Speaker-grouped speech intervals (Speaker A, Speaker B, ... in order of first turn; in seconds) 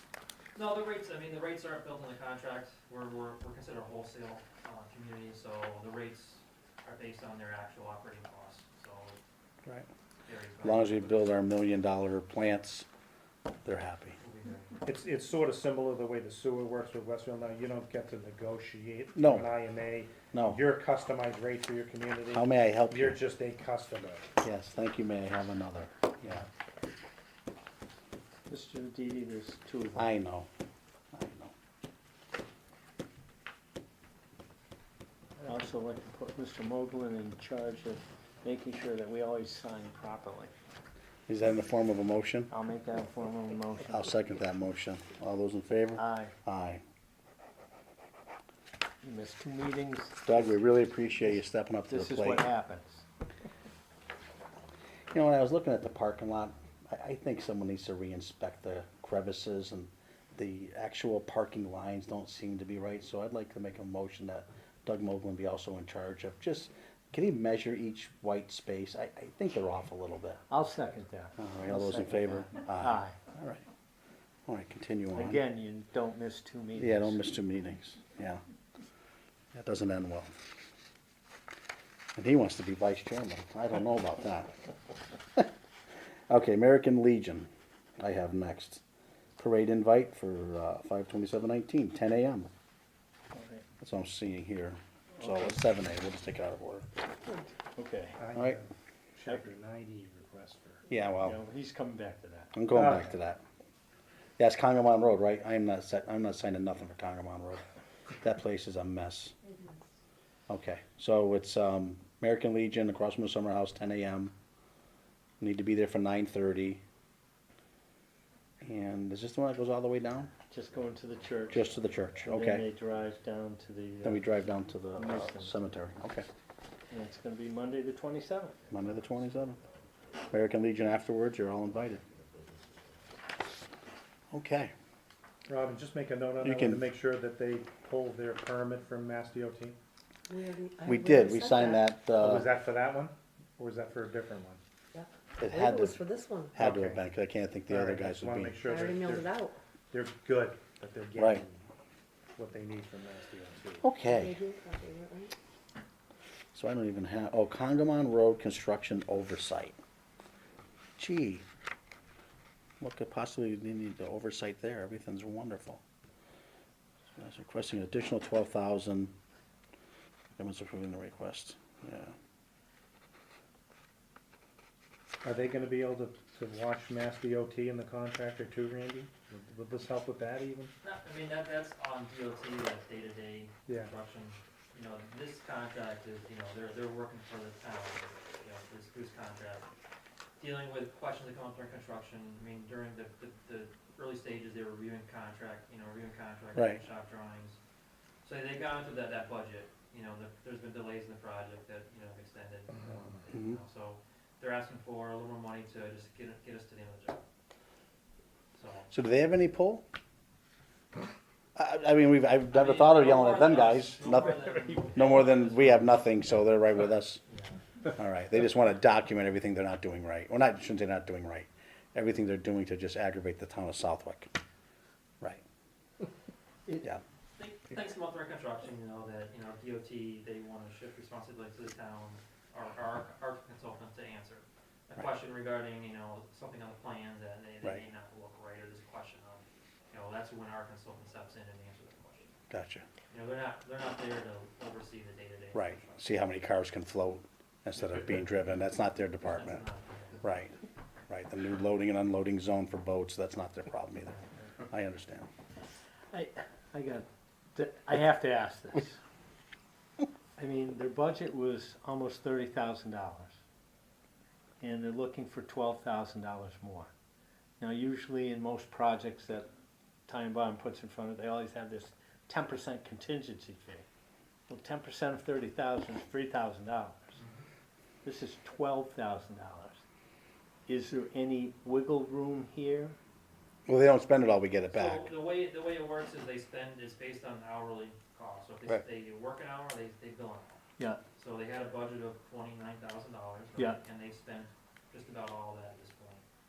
Speaker A: 0.5-9.2, 10.2-11.2, 14.2-14.8, 180.8-189.7, 190.4-197.6, 198.2-207.2, 208.5-208.9, 212.5-216.5, 217.3-217.6, 227.3-242.3, 243.1-246.0, 249.2-250.3, 254.1-254.5, 277.2-277.4, 284.7-290.6, 291.1-296.2
Speaker B: 10.6-12.8, 13.6-14.2, 19.1-19.5, 20.3-20.6, 22.3-23.2, 24.4-26.4, 29.9-30.5, 31.1-31.5, 41.3-42.5, 43.9-46.8, 50.2-52.4, 55.1-70.4, 71.4-73.6, 74.5-75.4, 76.8-78.4, 79.5-80.3, 82.2-84.5, 86.3-88.8, 89.4-92.5, 93.8-96.9, 98.3-98.6, 100.9-101.4, 102.5-103.4, 104.4-107.6, 108.2-109.3, 110.5-114.3, 115.4-116.8, 118.6-120.3, 121.5-122.7, 124.0-126.2, 128.7-129.6, 130.3-132.0, 134.3-134.7, 136.4-136.8, 140.8-142.5, 145.4-148.6, 151.2-151.4, 153.8-154.4, 156.5-159.8, 161.0-161.4, 162.8-165.8, 167.2-169.1, 170.3-172.1, 196.5-196.8, 203.3-203.6, 208.9-209.8, 211.6-217.2, 217.9-224.3, 242.5-242.8, 245.5-249.6, 250.2-250.6, 251.1-254.2, 254.7-255.3, 283.7-285.1
Speaker C: 14.8-24.3, 98.2-100.8, 102.7-103.1, 135.5-139.8, 142.2-144.6, 146.6-147.0, 147.7-149.3, 149.9-151.6, 152.3-153.8, 175.2-180.7, 183.7-183.9
Speaker D: 28.5-30.1, 35.4-40.5, 42.5-44.1, 46.0-46.3, 49.0-50.4, 51.9-53.0, 70.5-73.2, 75.1-77.2, 93.3-93.6, 95.2-95.6, 97.7-98.2, 101.2-102.5, 120.5-124.2, 124.9-125.6, 126.9-128.6, 256.1-259.0, 260.4-263.4, 264.6-266.9, 267.6-269.5, 270.1-273.9, 274.5-277.2, 278.0-279.8, 280.7-283.0
Speaker E: 109.5-109.8, 140.3-141.9, 144.9-146.6, 148.6-149.6, 154.0-155.3